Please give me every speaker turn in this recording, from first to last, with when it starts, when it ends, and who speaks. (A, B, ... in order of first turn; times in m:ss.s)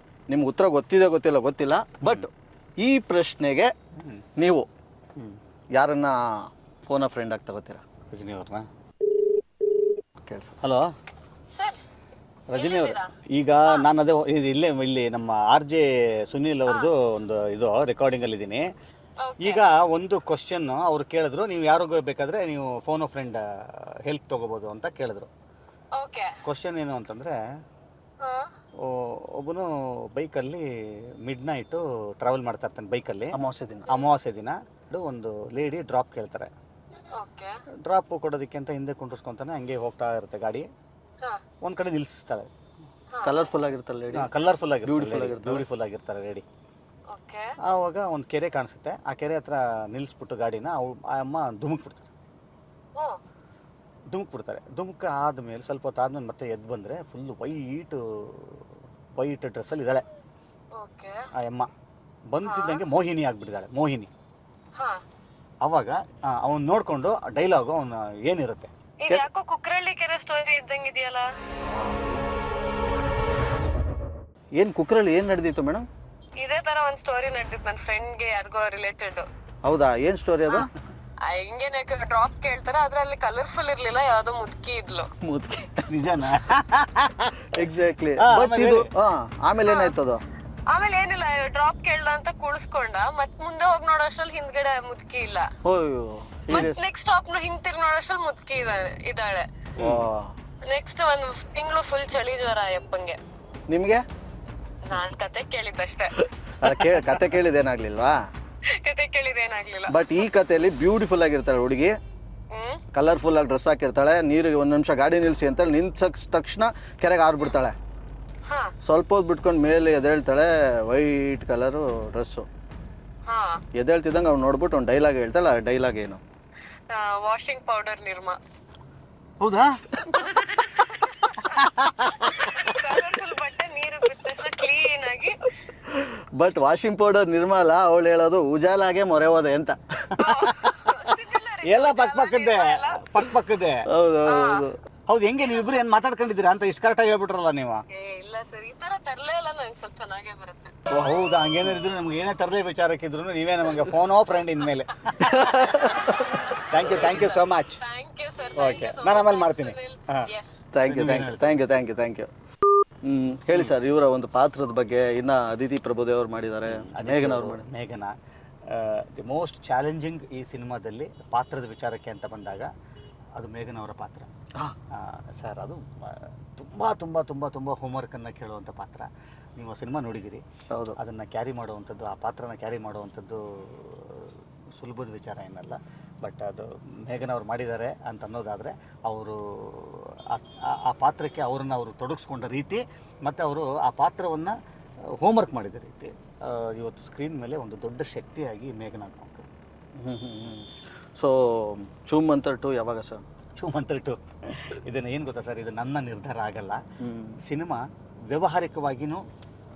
0:00.3-0:02.3 A
0:02.8-0:03.7 A
0:04.4-0:04.6 A
0:05.8-0:07.8 A
0:08.1-0:08.6 B
0:10.2-0:10.6 A
0:10.6-0:10.9 B
0:11.5-0:11.8 C
0:12.5-0:18.7 B
0:12.5-0:13.1 C
0:16.7-0:17.0 C
0:19.2-0:19.6 C
0:19.4-0:25.3 B
0:26.0-0:26.3 C
0:26.4-0:27.3 B
0:28.2-0:28.5 C
0:28.8-0:33.4 B
0:33.3-0:33.9 A
0:33.9-0:36.5 B
0:37.1-0:37.5 C
0:37.8-0:40.6 B
0:41.6-0:42.5 B
0:43.1-0:43.4 C
0:43.2-0:44.3 A
0:44.1-0:46.4 B
0:44.8-0:45.6 A
0:47.1-0:47.5 C
0:47.6-0:52.1 B
0:54.1-0:58.6 B
0:59.2-1:00.0 B
1:00.8-1:01.1 C
1:01.4-1:01.7 B
1:02.3-1:04.1 B
1:02.4-1:02.8 C
1:05.6-1:08.7 B
1:09.0-1:11.2 C
1:14.6-1:15.9 A
1:16.4-1:19.2 C
1:19.6-1:20.7 A
1:21.2-1:25.1 C
1:25.2-1:25.9 A
1:25.9-1:27.3 B
1:27.5-1:30.2 A
1:28.2-1:28.9 B
1:29.6-1:29.9 C
1:30.7-1:35.4 C
1:35.6-1:36.8 A
1:36.5-1:39.4 C
1:39.8-1:40.0 B
1:39.8-1:40.3 A
1:40.6-1:43.2 C
1:43.7-1:44.0 A
1:44.9-1:46.3 C
1:46.6-1:48.2 A
1:48.8-1:50.1 C
1:49.9-1:51.9 A
1:52.5-1:52.8 C
1:52.9-1:57.8 A
1:58.5-1:58.7 C
1:58.8-2:02.5 A
2:03.3-2:03.6 C
2:03.8-2:06.2 A
2:06.9-2:08.4 C
2:09.4-2:09.8 B
2:10.8-2:11.6 C
2:11.4-2:12.5 B
2:12.4-2:15.4 C
2:15.9-2:20.4 A
2:20.2-2:23.1 C
2:20.2-2:20.9 B
2:21.6-2:23.8 B
2:23.9-2:24.8 A
2:24.3-2:24.7 C
2:25.1-2:27.8 B
2:27.9-2:30.7 C
2:30.9-2:35.6 B
2:35.2-2:36.4 A
2:35.7-2:40.5 C
2:36.7-2:37.8 B
2:38.6-2:40.3 B
2:40.7-2:42.3 A
2:40.8-2:41.6 B
2:43.0-2:47.7 A
2:46.6-2:48.1 B
2:48.7-2:52.7 B
2:53.4-2:54.3 B
2:54.9-3:00.4 B
3:01.0-3:14.5 B
3:15.2-3:19.5 B
3:20.0-3:23.2 A
3:23.6-3:26.8 B
3:27.0-3:27.4 A
3:27.4-3:29.2 B